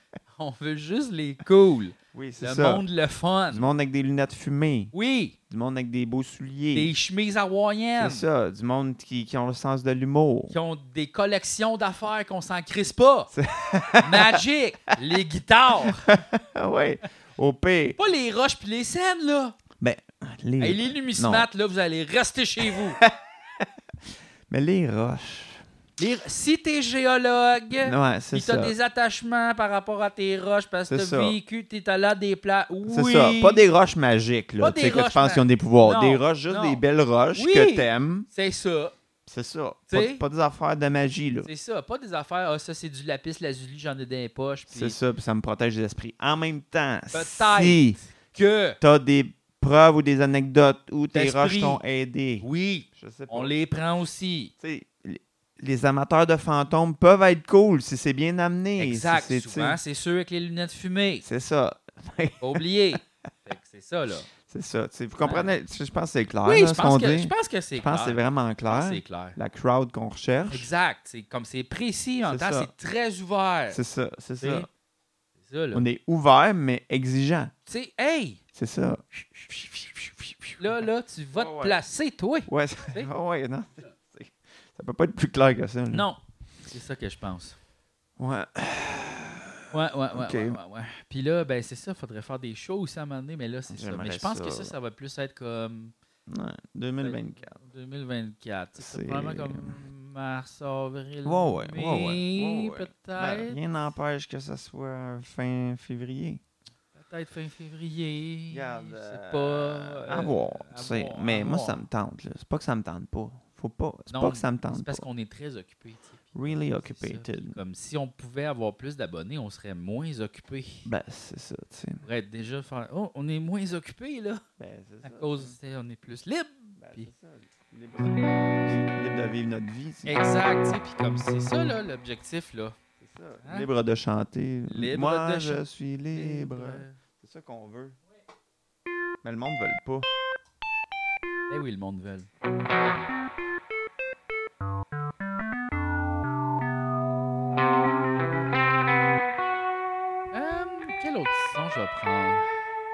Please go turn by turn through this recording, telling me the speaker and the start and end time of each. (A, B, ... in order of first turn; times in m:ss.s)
0:00.4-0:03.7 A
0:02.1-0:02.8 B
0:03.5-0:04.9 B
0:04.9-0:05.4 A
0:05.5-0:06.9 B
0:06.7-0:08.2 A
0:08.0-0:10.6 B
0:10.5-0:13.3 A
0:13.3-0:14.4 B
0:14.0-0:16.1 A
0:16.0-0:18.0 B
0:18.0-0:19.6 A
0:19.8-0:21.5 B
0:20.6-0:23.0 A
0:23.0-0:23.7 B
0:24.5-0:25.6 B
0:26.0-0:33.6 A
0:27.8-0:28.8 B
0:30.9-0:31.4 B
0:32.8-0:38.3 B
0:34.6-0:36.8 A
0:37.4-0:39.0 A
0:39.3-0:41.5 B
0:39.9-0:40.2 A
0:41.4-0:45.0 A
0:44.7-0:48.0 B
0:47.1-0:48.8 A
0:48.8-0:53.5 B
0:51.1-0:51.8 A
0:52.4-0:54.5 A
0:54.6-0:59.8 B
0:58.8-1:01.2 A
1:01.2-1:02.6 B
1:02.4-1:04.3 A
1:04.4-1:10.7 B
1:05.2-1:05.5 A
1:06.4-1:09.4 A
1:10.5-1:13.8 A
1:12.2-1:12.7 B
1:13.7-1:14.7 B
1:14.4-1:14.7 A
1:15.4-1:15.9 A
1:15.7-1:17.5 B
1:17.7-1:18.4 A
1:18.5-1:20.6 B
1:20.6-1:23.1 A
1:21.3-1:21.8 B
1:22.5-1:26.1 B
1:25.9-1:27.6 A
1:28.2-1:30.6 B
1:29.7-1:35.9 A
1:33.7-1:34.8 B
1:36.3-1:37.6 B
1:37.0-1:43.6 A
1:38.8-1:39.8 B
1:41.2-1:46.4 B
1:47.0-1:51.8 A
1:48.5-1:55.1 B
1:54.1-2:00.9 A
1:56.3-1:57.6 B
2:00.8-2:02.0 B
2:02.0-2:04.4 A
2:04.6-2:05.6 B
2:05.0-2:07.1 A
2:06.8-2:10.2 B
2:10.1-2:12.8 A
2:13.0-2:18.0 B
2:14.7-2:17.0 A
2:19.2-2:20.1 B
2:21.5-2:22.3 A
2:30.3-2:32.5 A